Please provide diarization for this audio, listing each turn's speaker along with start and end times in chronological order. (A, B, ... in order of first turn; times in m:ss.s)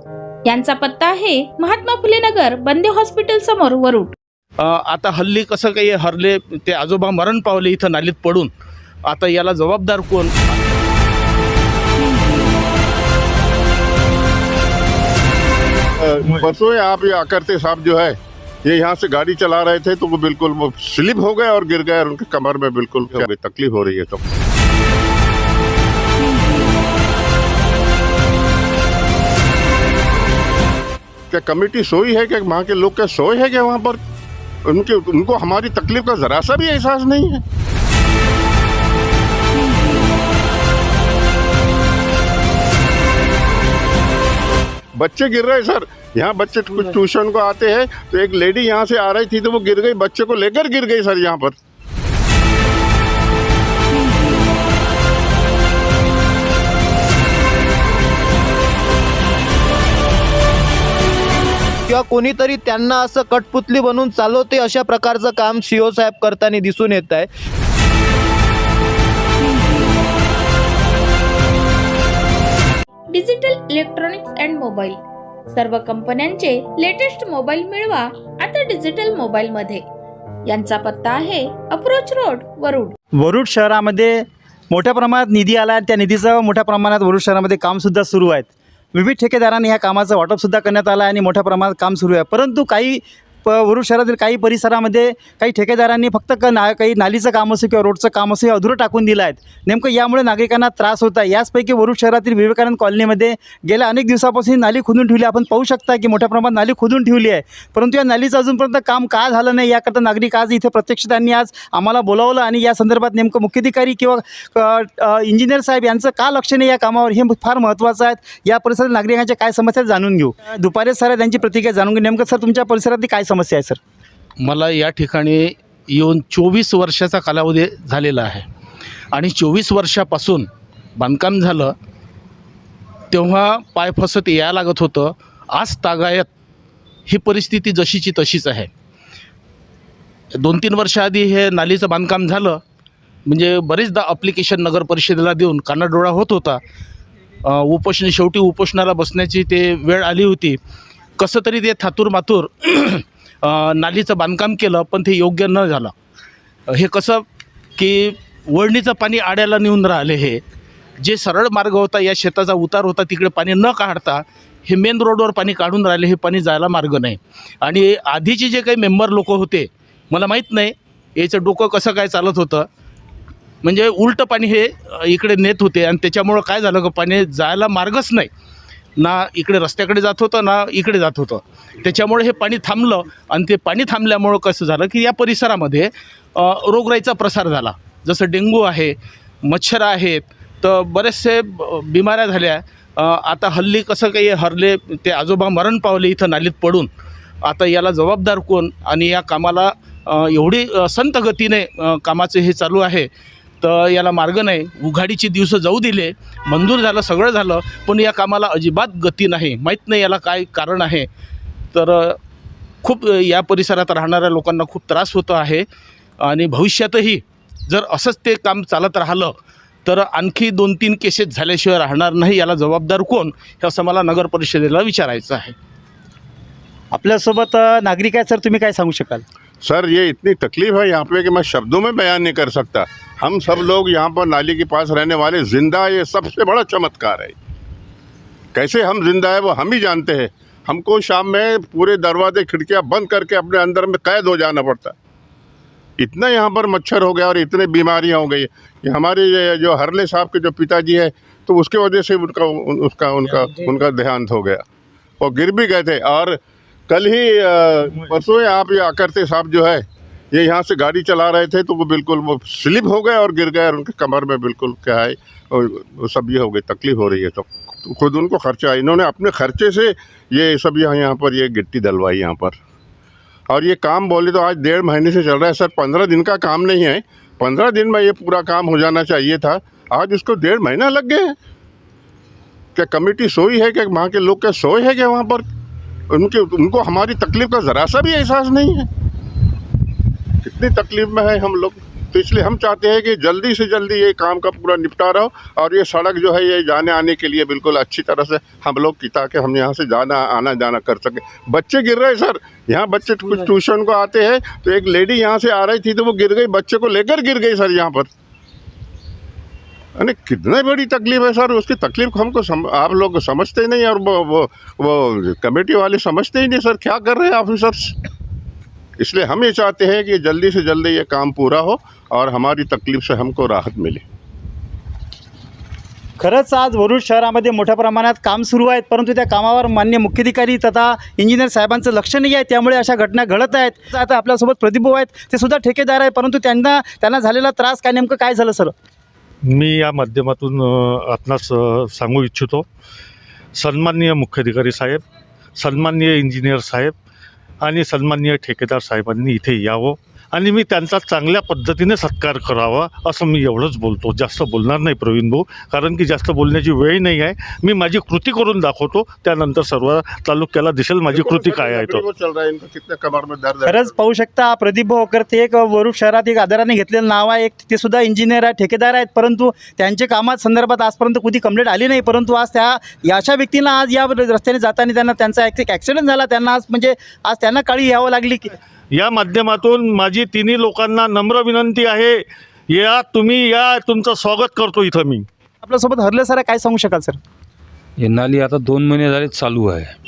0:00.4-0:04.2 A
0:04.6-0:08.5 B
0:09.1-0:10.6 B
0:16.2-0:17.9 C
0:18.7-0:24.2 C
0:32.6-0:32.9 C
0:33.4-0:34.0 C
0:34.7-0:36.3 C
0:37.0-0:37.4 C
0:45.9-0:49.4 C
0:50.2-0:51.5 C
1:01.9-1:07.3 D
1:09.4-1:09.8 A
1:13.1-1:15.0 A
1:15.5-1:19.8 A
1:20.5-1:23.0 A
1:23.2-2:03.8 E
2:04.4-2:08.5 B
2:09.1-2:11.7 B
2:13.1-2:16.3 B
2:17.1-2:18.7 B
2:20.4-2:22.6 B
2:23.3-2:26.6 B
2:27.4-2:30.6 B
2:31.2-2:35.9 B
2:36.7-2:37.2 B
2:37.8-2:40.4 B
2:41.0-2:52.7 B
2:53.6-2:58.3 B
2:59.0-3:16.9 B
3:17.4-3:23.1 B
3:23.6-3:31.1 B
3:31.7-3:32.2 B
3:32.8-3:35.6 B
3:36.2-3:39.4 B
3:39.9-3:45.6 B
3:46.9-3:49.2 E
3:49.7-3:57.3 C
3:58.6-4:04.9 C
4:06.0-4:14.6 C
4:15.2-4:16.4 C
4:16.9-4:19.8 C
4:20.4-4:25.1 C
4:25.8-4:29.8 C
4:30.4-4:32.5 C
4:33.6-4:41.0 C
4:42.8-4:45.4 C
4:46.1-4:48.9 C
4:50.4-5:08.0 C
5:10.0-5:14.9 C
5:15.4-5:17.9 C
5:19.1-5:24.0 C
5:26.2-5:38.7 E
5:39.4-5:42.7 F
5:43.5-5:45.0 F
5:45.6-5:47.0 F
5:47.6-6:02.0 F
6:01.1-6:03.8 C
6:03.6-6:18.6 E
6:18.9-6:25.3 F
6:25.6-6:27.2 E
6:28.0-6:29.9 G